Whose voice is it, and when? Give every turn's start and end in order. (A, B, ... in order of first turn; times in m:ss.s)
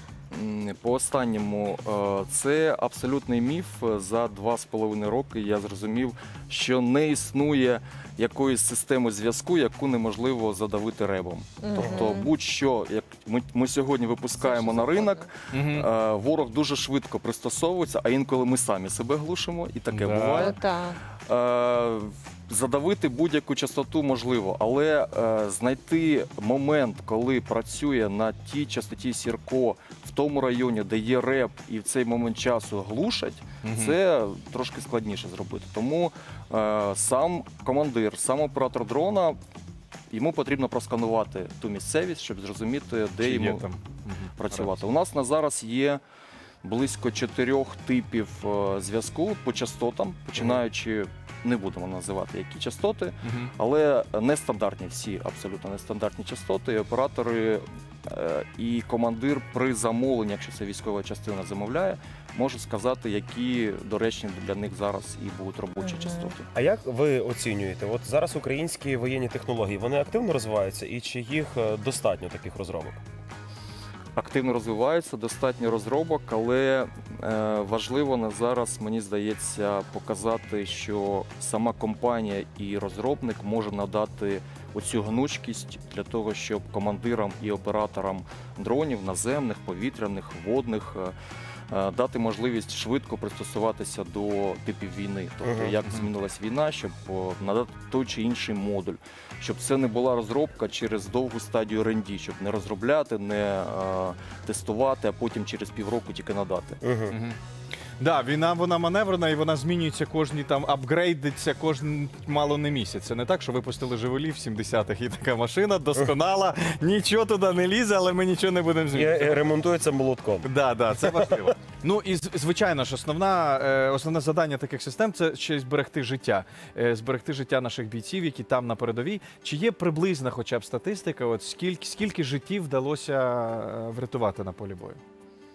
0:00.3-0:20.6 A
0:11.6-0:12.3 B
0:14.4-0:15.3 B
0:15.5-0:15.9 C
0:19.9-0:20.5 C
0:20.3-0:21.0 B
0:21.3-0:39.4 A
0:33.6-0:33.9 C
0:40.1-0:43.6 A
0:43.2-0:44.8 C
0:44.4-0:46.0 A
0:46.6-1:06.5 A
0:53.2-0:53.5 C
1:05.8-1:06.3 B
1:06.5-1:13.0 D
1:14.2-1:31.1 A
1:31.7-1:46.8 A
1:35.4-1:35.7 D
1:46.8-1:47.2 D
1:47.1-1:47.4 C
1:48.0-1:59.4 C
1:58.9-2:01.3 D
2:00.4-2:15.0 C